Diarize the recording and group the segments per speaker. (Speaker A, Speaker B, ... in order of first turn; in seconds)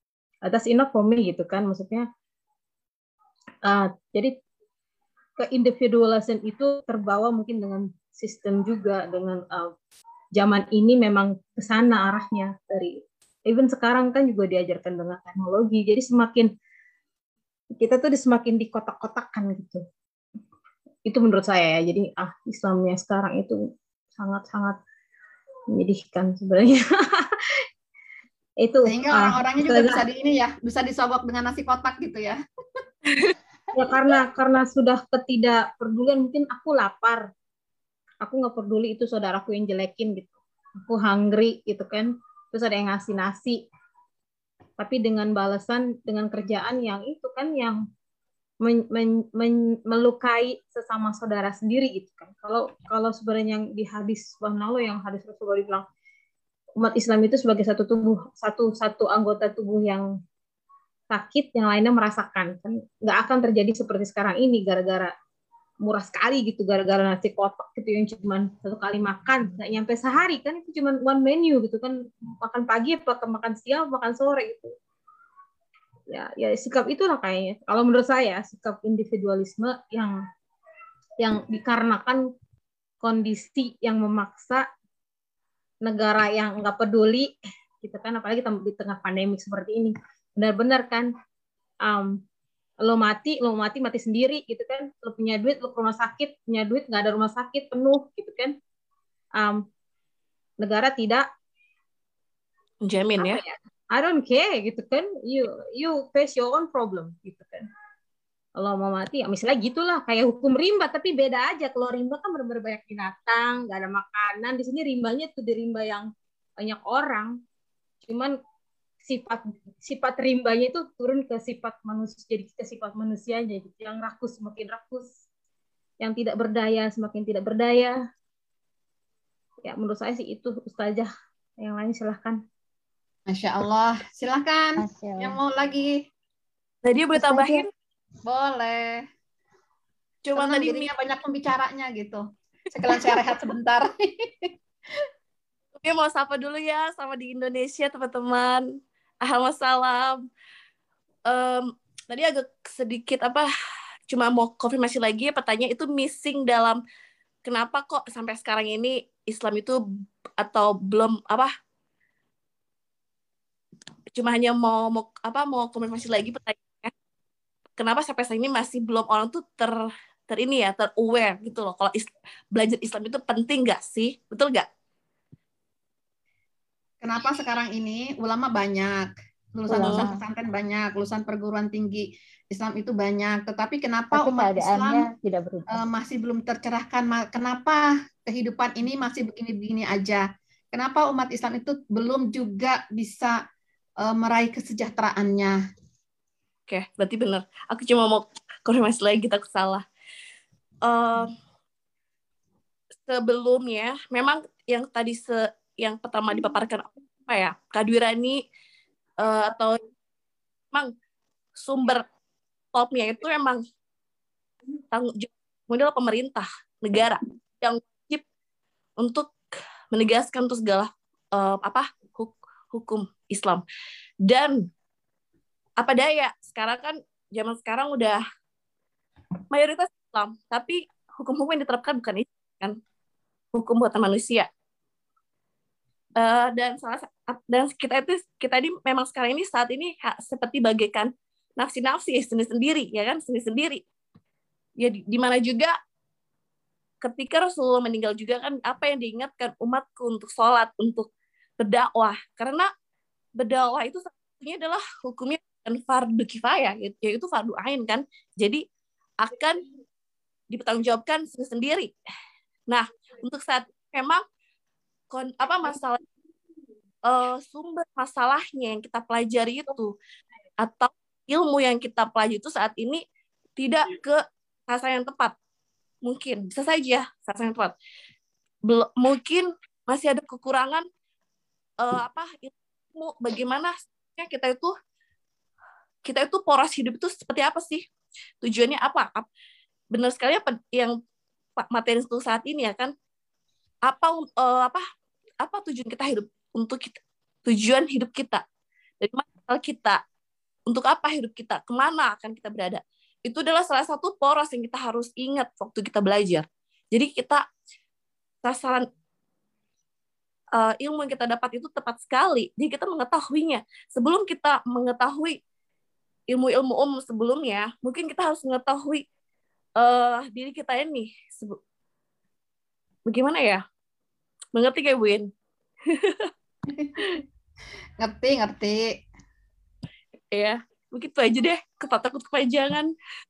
Speaker A: 0.4-2.1, 3.6-4.4, 5.4-9.7, 10.4-16.5, 17.8-19.9, 21.1-23.6, 24.2-24.8, 25.7-27.4, 28.6-30.1, 33.7-37.3, 38.2-43.6, 44.8-47.8, 48.6-55.9, 56.8-60.1, 61.1-65.1, 65.8-74.7, 76.1-80.2, 81.2-82.2, 83.0-84.7, 85.8-91.1, 91.9-92.2, 92.8-98.6, 99.4-99.7, 100.6-101.3, 103.2-107.7, 108.6-117.4, 118.1-118.4, 119.0-125.1, 126.0-128.0, 129.7-132.4
Speaker B: 28.9-32.4, 133.3-136.0, 138.2-139.0, 140.3-144.5, 177.0-185.1, 185.7-193.4, 194.0-195.6, 326.7-327.0, 328.0-328.9
Speaker C: 102.8-103.4, 136.8-137.7, 140.3-140.9, 145.8-150.2, 151.3-153.5, 154.1-156.8, 157.4-159.8, 160.4-161.5, 164.2-166.9, 167.8-174.7, 196.7-199.8, 200.8-201.4, 203.1-208.4, 209.2-209.8, 211.6-212.1, 212.7-213.6, 214.9-218.2, 219.0-219.3, 219.9-223.6, 224.2-224.7, 225.8-228.2, 229.5-232.8, 233.5-234.5, 236.2-243.8, 244.8-245.7, 247.0-251.1, 251.6-252.7, 253.4-258.6, 259.2-259.6, 260.5-261.9, 262.7-264.2, 265.1-266.0, 267.1-269.9, 270.6-273.0, 273.6-275.4, 276.0-277.7, 278.6-280.9, 281.8-284.7, 286.1-287.9, 288.4-289.3, 289.9-290.9, 291.6-292.9, 293.9-294.8, 295.4-298.4, 299.0-300.0, 300.7-307.5, 308.4-308.9, 310.6-315.4, 316.3-319.1, 319.8-321.6, 323.1-323.6, 324.6-325.3, 325.9-326.3, 330.3-332.9
Speaker D: 134.8-135.4, 137.2-137.6, 179.7-180.2, 184.1-185.9